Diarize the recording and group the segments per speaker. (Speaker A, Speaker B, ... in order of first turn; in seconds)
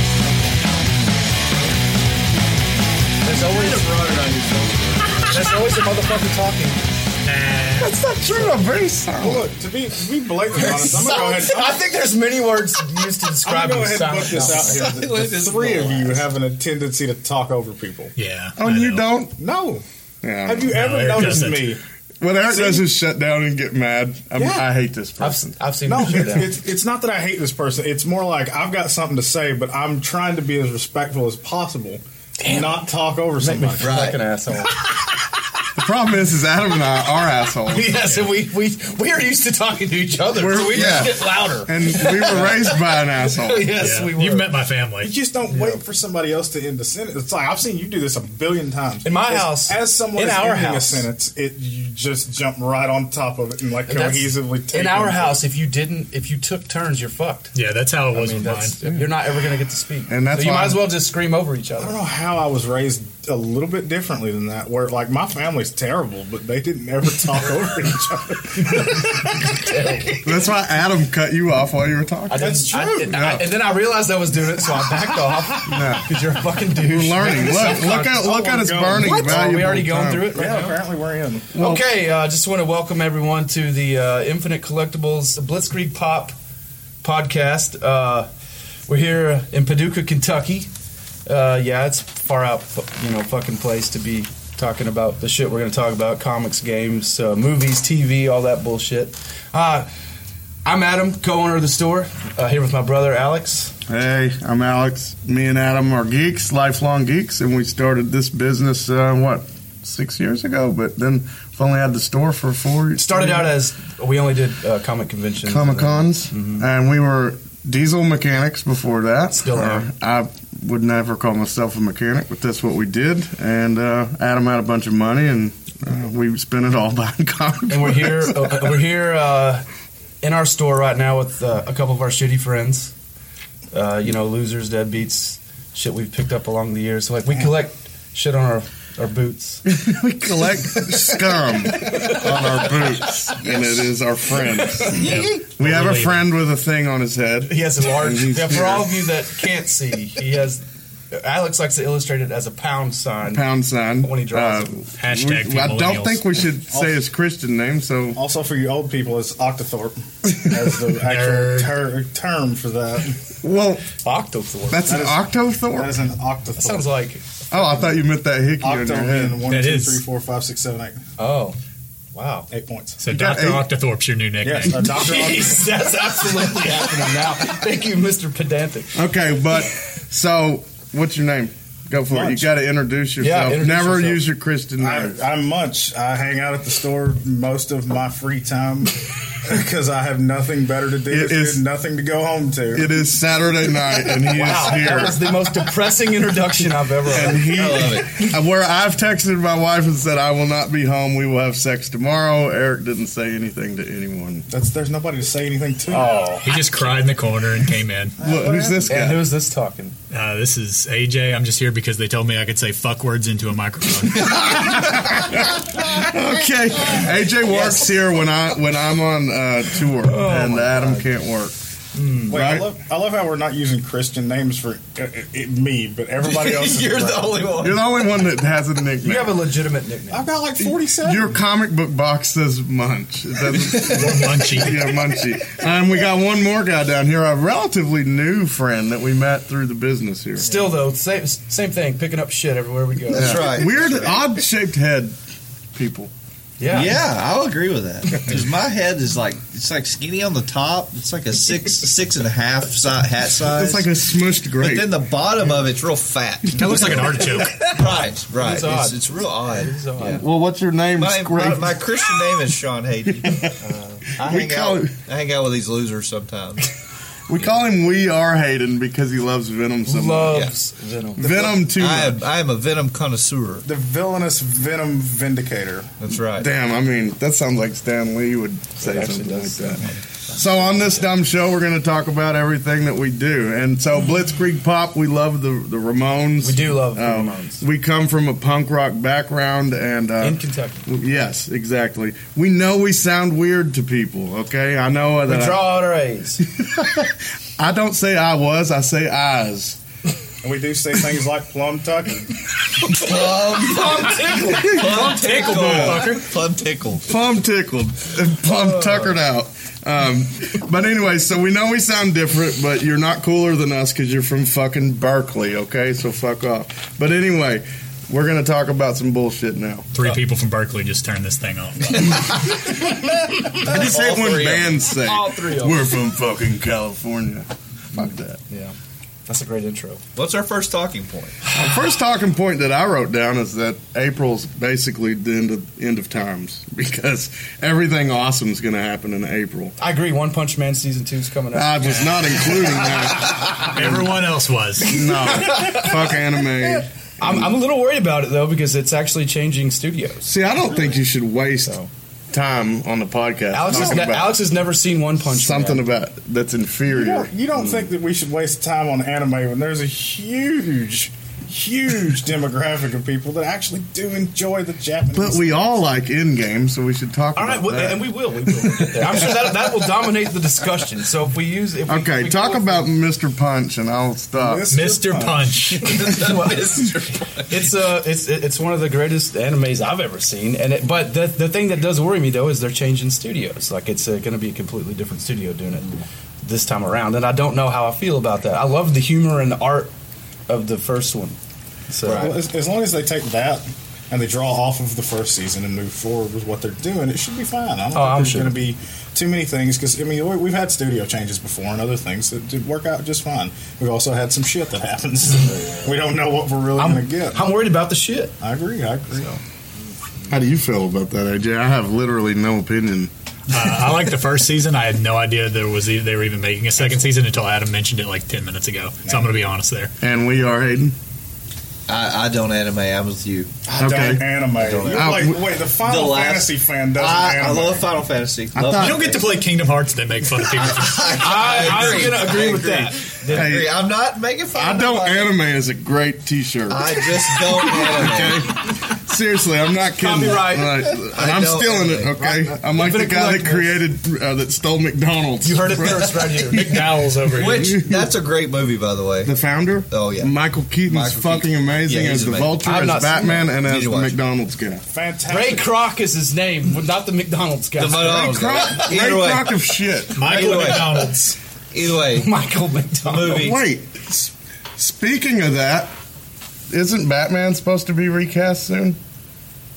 Speaker A: 3.2-3.9, 5.3-6.8, 8.3-8.6, 10.5-14.9, 25.2-26.6, 32.4-32.8, 33.4-34.9, 37.6-44.5, 45.5-45.8, 49.0-51.1, 53.9-57.5, 58.1-62.0, 68.6-70.2, 72.3-80.8, 81.6-86.3, 87.0-88.3, 88.9-90.7, 91.2-99.9, 100.6-103.8, 113.0-116.7, 119.3-119.9, 127.7-129.6, 130.2-132.9, 133.7-139.6, 141.7-143.5, 144.4-145.0, 147.4-153.5, 154.0-154.8, 164.0-165.0, 166.6-167.8, 171.2-171.6, 172.1-172.5, 174.8-179.0, 183.2-184.2, 194.2-197.8, 205.9-206.6, 208.9-209.9, 220.0-221.1, 221.9-222.4, 229.0-230.3, 240.4-243.6, 246.6-247.0, 257.3-260.2, 269.9-271.2, 278.8-280.4, 286.4-287.6, 290.2-290.9, 295.2-296.4, 303.0-306.2, 325.0-325.9, 328.0-328.7, 329.3-330.0, 339.8-343.6, 344.8-346.2, 347.2-350.3, 353.5-355.8, 367.4-372.9, 377.5-389.9, 390.5-391.4, 391.9-392.3, 397.9-398.6, 406.8-408.3, 431.1-433.6, 440.0-440.9, 442.7-443.8, 445.4-446.7, 452.6-453.5, 455.3-458.6, 460.3-461.0, 462.1-463.5
Speaker B: 3.3-5.4, 14.4-16.3, 33.8-34.2, 145.0-145.4, 197.5-198.2, 214.2-215.2, 217.5-217.8, 226.2-228.0, 233.5-234.2, 243.1-244.2, 246.7-253.8, 254.6-260.1, 261.0-266.7, 271.6-273.7, 276.0-276.5, 302.8-307.1, 323.5-324.9, 330.1-331.4, 375.7-377.6, 392.0-392.4, 421.9-423.5, 424.6-425.3, 425.8-429.3, 430.4-435.3, 436.7-438.5, 440.9-442.5, 447.3-449.3, 449.9-450.3, 450.9-452.6, 453.5-454.1, 457.8-459.6, 460.1-461.1, 461.7-462.3, 463.0-463.6
Speaker C: 7.2-7.9, 18.1-19.1, 20.7-21.7, 43.8-45.1, 57.5-58.8, 144.9-146.2, 155.0-156.3, 160.9-161.7, 169.4-170.0, 173.0-175.1, 206.4-208.1, 210.1-214.8, 233.7-234.8, 256.6-257.6, 304.8-306.3, 319.9-322.6, 343.6-344.9, 374.7-376.0, 413.5-419.9, 428.7-432.2, 446.5-447.7, 460.1-461.4
Speaker D: 7.8-9.5, 18.6-19.3, 20.2-21.6, 22.2-25.6, 35.8-37.9, 40.3-43.7, 58.8-59.1, 60.1-60.9, 70.2-73.5, 75.6-76.1, 76.7-80.4, 81.5-81.9, 103.9-113.5, 115.5-128.8, 139.7-149.0, 153.3-158.2, 163.4-163.9, 164.7-166.0, 167.5-169.4, 173.1-173.7, 178.9-185.2, 191.1-191.6, 192.7-195.2, 197.1-204.4, 208.2-209.2, 214.7-221.5, 222.3-222.7, 227.6-229.3, 231.0-240.5, 243.1-245.2, 245.7-246.1, 253.4-255.0, 260.0-261.9, 263.2-263.6, 264.2-264.9, 267.3-270.5, 271.2-272.2, 276.4-295.8, 296.4-299.8, 304.5-305.0, 307.1-319.9, 323.5-328.4, 331.5-339.7, 341.5-344.1, 344.8-347.5, 350.2-351.7, 352.3-354.4, 355.2-357.3, 365.1-369.6, 371.9-374.6, 410.3-413.1, 420.0-421.0, 423.8-424.2, 424.8-425.4, 428.5-429.1, 433.3-433.8, 434.5-448.1, 449.2-454.8, 457.9-460.3, 463.2-465.9, 466.7-469.0
Speaker E: 9.2-11.8, 13.4-18.1, 19.4-19.8, 20.4-21.8, 22.5-22.8, 24.4-24.6, 25.9-34.1, 45.0-55.4, 61.8-69.7, 72.4-73.1, 77.3-79.5, 80.3-81.5, 158.1-163.2, 164.8-165.2, 165.7-166.9, 168.6-171.0, 172.5-173.0, 174.4-175.8, 182.1-182.5, 184.8-193.0, 204.5-206.2, 208.2-209.0, 222.3-227.5, 230.1-231.3, 271.2-271.6, 273.6-275.9, 300.4-302.4, 353.7-354.0, 356.9-365.7, 374.3-375.7, 392.1-407.4, 408.4-409.4, 416.8-417.1, 419.0-419.3, 423.6-427.9, 454.9-455.7